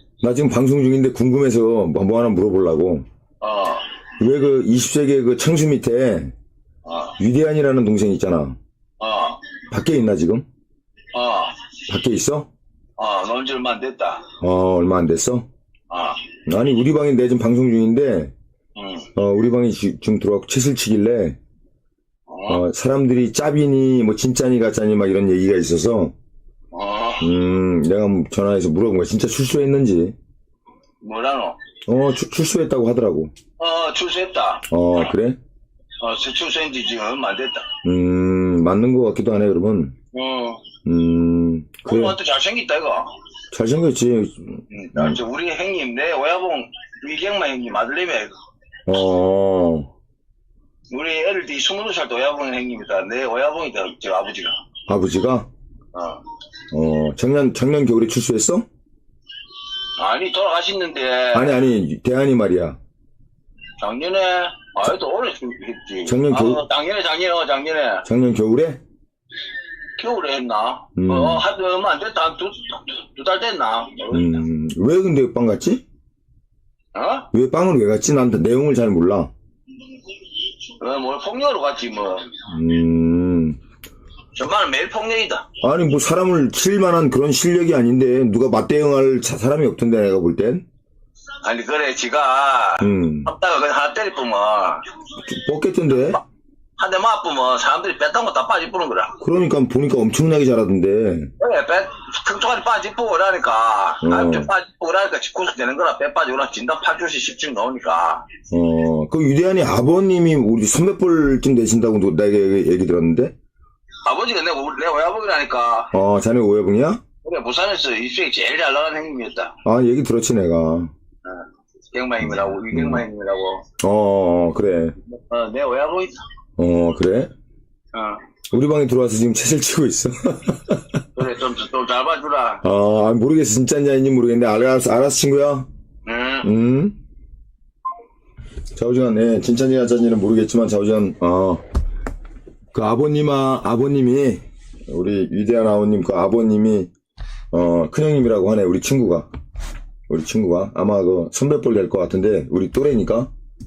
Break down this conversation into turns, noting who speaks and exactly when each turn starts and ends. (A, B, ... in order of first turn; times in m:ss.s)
0:00.2-0:03.0 A
0:03.4-0:03.9 B
0:04.2-0:06.3 A
0:06.8-0:07.2 B
0:07.2-0:08.6 A
0:09.0-0:09.4 B
0:09.7-0:10.4 A
0:11.1-0:11.7 B
0:11.9-0:12.5 A
0:13.0-0:14.3 B
0:14.4-0:15.5 A
0:15.9-0:16.3 B
0:16.4-0:18.3 A
0:18.8-0:19.1 B
0:19.2-0:21.4 A
0:22.3-0:22.6 B
0:22.5-0:26.1 A
0:26.7-0:27.3 B
0:27.2-0:30.1 A
0:31.0-0:31.6 B
0:31.9-0:33.3 A
0:33.6-0:34.6 B
0:34.7-0:35.4 A
0:36.0-0:37.7 B
0:37.8-0:40.0 A
0:40.1-0:40.6 B
0:40.8-0:42.2 A
0:41.9-0:43.1 B
0:43.5-0:45.2 A
0:44.7-0:48.3 B
0:48.9-0:49.9 A
0:50.9-0:54.5 B
0:54.9-0:55.5 A
0:55.9-0:56.2 B
0:56.7-0:58.6 A
1:00.0-1:01.6 B
1:01.3-1:02.8 A
1:03.8-1:08.0 B
1:06.0-1:06.6 A
1:08.1-1:08.8 A
1:10.0-1:14.4 B
1:11.0-1:11.4 A
1:14.1-1:15.8 A
1:17.0-1:17.3 B
1:17.3-1:19.3 A
1:20.6-1:22.4 B
1:22.5-1:23.6 A
1:24.3-1:25.4 B
1:25.6-1:30.6 A
1:31.4-1:34.9 B
1:32.8-1:33.3 A
1:35.2-1:36.2 A
1:35.9-1:36.2 B
1:36.8-1:39.2 B
1:39.2-1:41.3 A
1:41.4-1:48.3 B
1:44.0-1:44.5 A
1:48.5-1:53.3 A
1:54.1-1:55.9 B
1:55.9-1:57.0 A
1:57.2-1:59.6 B
1:59.6-2:00.9 A
2:01.2-2:03.6 B
2:02.2-2:03.1 A
2:03.8-2:04.9 A
2:05.0-2:06.1 B
2:06.6-2:07.3 A
2:07.9-2:08.2 B
2:08.5-2:11.0 A
2:11.2-2:12.6 B
2:12.6-2:15.7 A
2:16.1-2:16.5 B
2:16.4-2:17.0 A
2:18.8-2:21.6 A
2:22.7-2:26.9 A
2:27.5-2:29.3 A
2:30.1-2:33.3 A